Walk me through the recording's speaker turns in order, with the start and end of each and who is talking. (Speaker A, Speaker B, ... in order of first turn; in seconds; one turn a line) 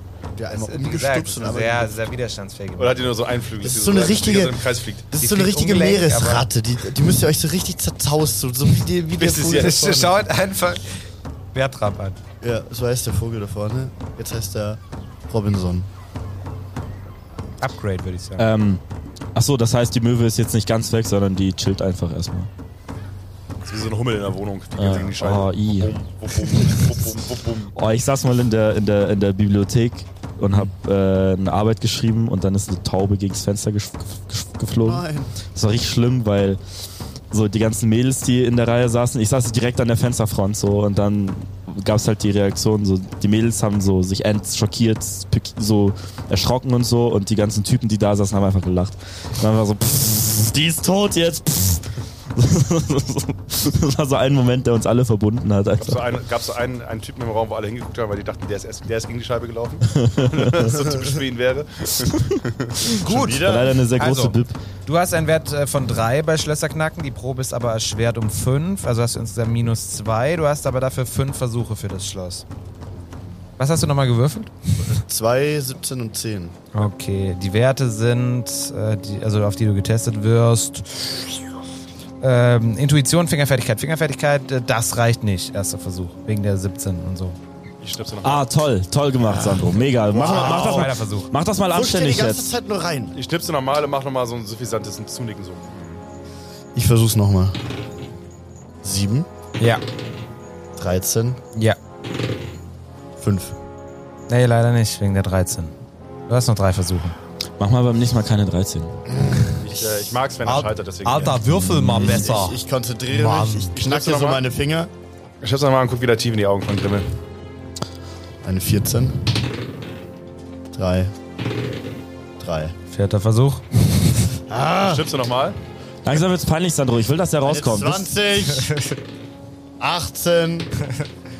Speaker A: 0.3-2.1
Speaker B: 0.5-3.1
Speaker C: 2.8-5.0
Speaker A: 3.6-10.2
Speaker B: 5.2-6.5
Speaker C: 9.2-9.8
Speaker B: 9.4-12.2
Speaker A: 12.4-15.9
Speaker B: 17.6-18.5
Speaker D: 18.4-18.8
Speaker D: 19.3-22.5
Speaker C: 23.6-27.7
Speaker D: 24.8-26.9
Speaker D: 27.8-36.6
Speaker A: 34.8-35.4
Speaker D: 37.3-56.0
Speaker C: 55.8-62.9
Speaker D: 60.0-60.7
Speaker A: 62.9-63.8
Speaker B: 63.0-72.4
Speaker D: 63.0-64.5
Speaker B: 73.6-74.5
Speaker A: 74.8-76.6
Speaker B: 76.7-81.2
Speaker B: 82.2-87.4
Speaker C: 87.8-88.5
Speaker D: 88.2-92.5
Speaker A: 89.2-90.8
Speaker C: 90.2-90.9
Speaker B: 90.2-91.3
Speaker A: 91.7-93.2
Speaker C: 93.1-95.8
Speaker A: 96.7-97.6
Speaker A: 98.8-99.3
Speaker A: 100.8-101.4
Speaker A: 103.2-103.5
Speaker B: 104.3-105.7
Speaker B: 106.3-107.2
Speaker D: 107.6-108.9
Speaker A: 109.1-109.6
Speaker C: 109.6-111.4
Speaker B: 110.4-112.6
Speaker D: 111.8-112.2
Speaker A: 111.9-114.9
Speaker B: 113.1-113.7
Speaker C: 113.7-114.4
Speaker C: 115.4-117.1
Speaker A: 118.4-119.3
Speaker A: 120.7-121.1
Speaker A: 122.4-122.7
Speaker B: 122.9-123.6
Speaker A: 124.5-125.0
Speaker C: 124.8-125.6
Speaker D: 126.0-128.1
Speaker A: 127.4-128.7
Speaker B: 128.5-129.0
Speaker A: 129.8-130.7